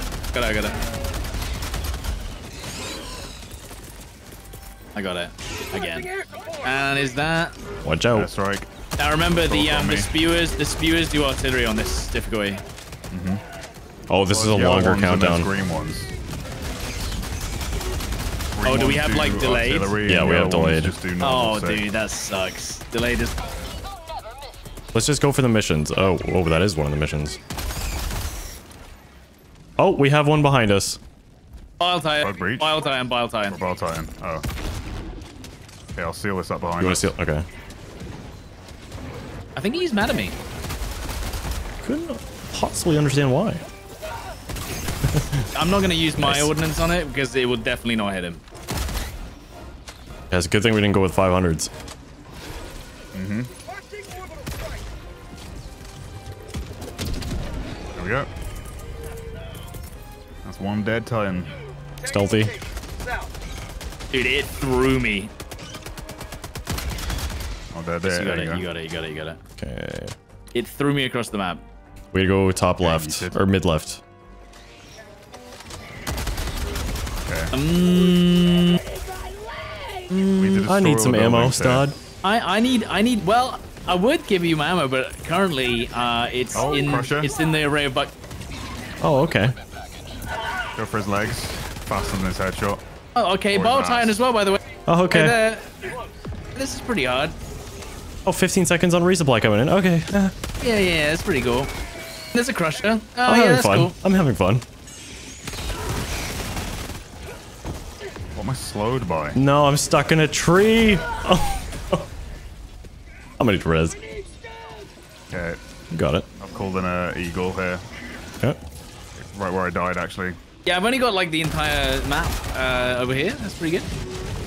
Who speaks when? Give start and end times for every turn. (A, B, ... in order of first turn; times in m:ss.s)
0:00.3-0:00.8 A
0:04.9-0:07.5 A
0:07.8-0:08.3 B
0:08.1-0:08.7 C
0:09.0-0:12.6 A
0:09.2-0:10.1 C
0:13.1-0:13.4 C
0:14.1-0:15.5 B
0:14.3-0:16.1 C
0:18.5-0:21.8 C
0:18.6-0:20.0 A
0:20.0-0:21.0 B
0:21.2-0:23.4 A
0:24.9-0:27.4 B
0:29.8-0:31.0 B
0:31.8-0:33.6 A
0:32.2-0:32.7 C
0:33.5-0:34.4 C
0:36.0-0:37.1 C
0:36.8-0:37.4 B
0:39.6-0:40.4 A
0:41.8-0:43.6 B
0:45.1-0:45.5 B
0:45.5-0:48.4 A
0:46.2-0:46.5 B
0:50.3-0:51.7 B
0:53.1-0:53.5 C
0:57.9-0:58.3 C
1:00.4-1:01.5 C
1:02.0-1:02.6 B
1:04.1-1:05.3 A
1:07.7-1:08.6 C
1:08.0-1:09.4 A
1:09.6-1:10.1 B
1:10.5-1:11.6 A
1:12.1-1:14.0 B
1:12.8-1:13.4 C
1:17.2-1:17.5 C
1:17.5-1:18.8 A
1:20.1-1:20.7 A
1:20.4-1:21.8 C
1:20.7-1:22.0 B
1:22.2-1:28.1 A
1:26.5-1:27.3 C
1:29.0-1:29.5 B
1:30.8-1:32.8 C
1:33.1-1:34.6 A
1:33.5-1:34.2 C
1:34.9-1:35.4 B
1:35.1-1:35.8 A
1:36.5-1:37.3 A
1:38.2-1:40.3 B
1:40.6-1:41.7 A
1:42.3-1:43.9 A
1:43.2-1:44.6 B
1:48.3-1:49.4 C
1:49.4-1:52.1 B
1:53.4-1:54.0 B
1:55.3-1:55.6 C
1:55.9-1:56.3 B
1:56.4-1:57.8 C
1:59.2-2:00.4 C
2:00.6-2:03.9 A